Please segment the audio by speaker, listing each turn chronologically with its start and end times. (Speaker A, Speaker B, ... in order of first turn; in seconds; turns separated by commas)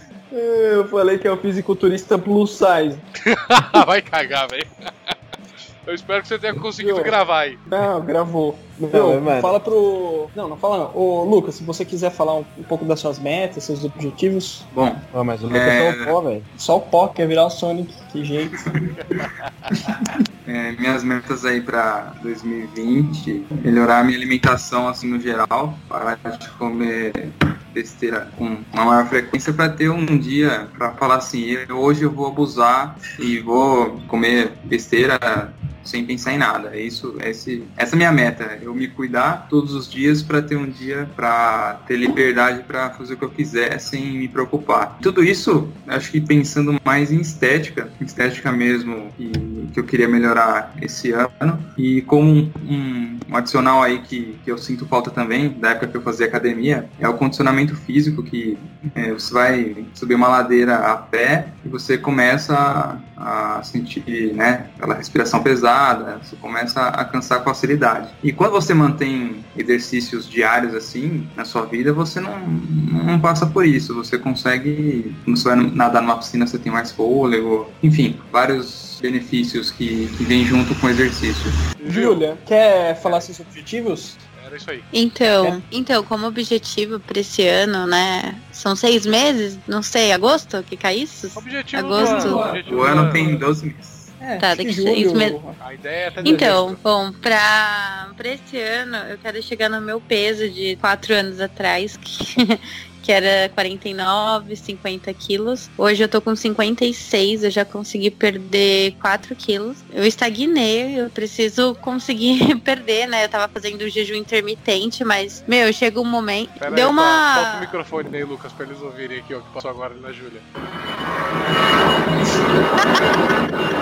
Speaker A: 0.3-3.0, Speaker B: 3.2-5.1, Speaker B: 5.8-7.6, Speaker A: 6.8-14.7, Speaker C: 8.8-9.6, Speaker D: 14.7-16.1, Speaker C: 15.1-16.5, Speaker A: 16.5-18.6, Speaker D: 18.6-81.5, Speaker B: 19.1-19.5, Speaker B: 81.8-82.3, Speaker A: 81.8-84.2, Speaker B: 83.0-83.3, Speaker B: 84.3-84.9, Speaker E: 84.9-92.4, Speaker B: 91.3-93.3, Speaker D: 91.9-94.2, Speaker A: 93.1-93.4, Speaker A: 94.2-95.6, Speaker E: 94.4-95.4, Speaker B: 95.6-96.8, Speaker A: 96.2-96.6, Speaker E: 96.2-117.7, Speaker B: 116.6-120.5, Speaker D: 122.0-123.3